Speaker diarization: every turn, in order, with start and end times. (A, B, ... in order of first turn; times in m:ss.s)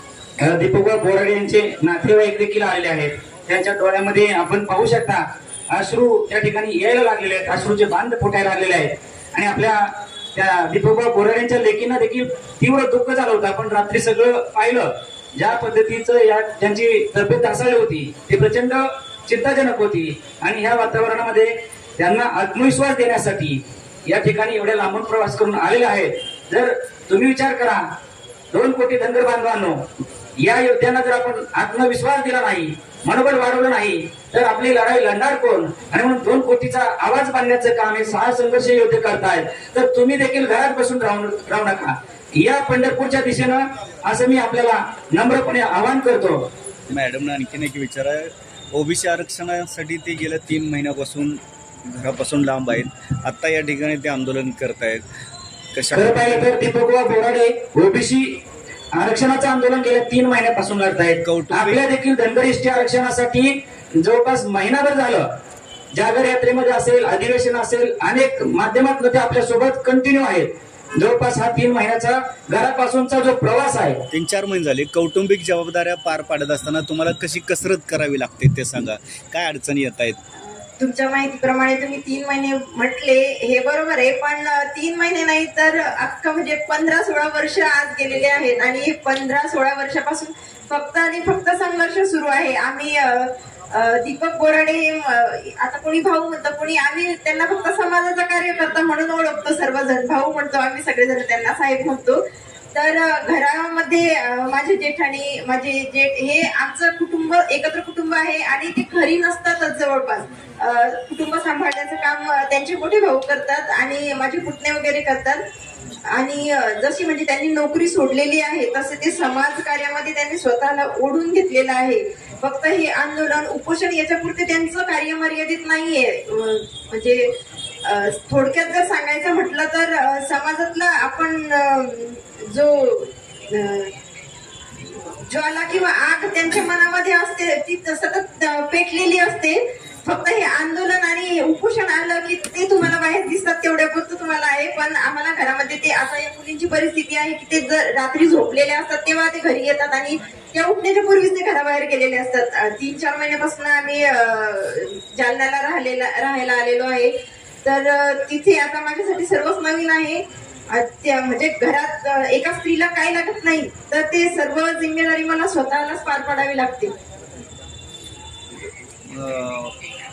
0:00.4-0:27.8 A
0:28.5-0:29.8 A
0:30.4-0:46.5 A
0:46.9-0:55.0 B
0:55.7-0:56.6 B
0:55.9-0:58.4 A
0:58.9-1:05.3 A
1:01.2-1:01.8 B
1:05.9-1:14.0 A
1:14.1-1:20.2 B
1:20.4-1:42.2 C
1:42.7-1:55.4 C
1:56.1-2:07.3 C
2:07.8-2:13.9 C
2:15.2-2:47.0 C
2:49.1-2:49.7 B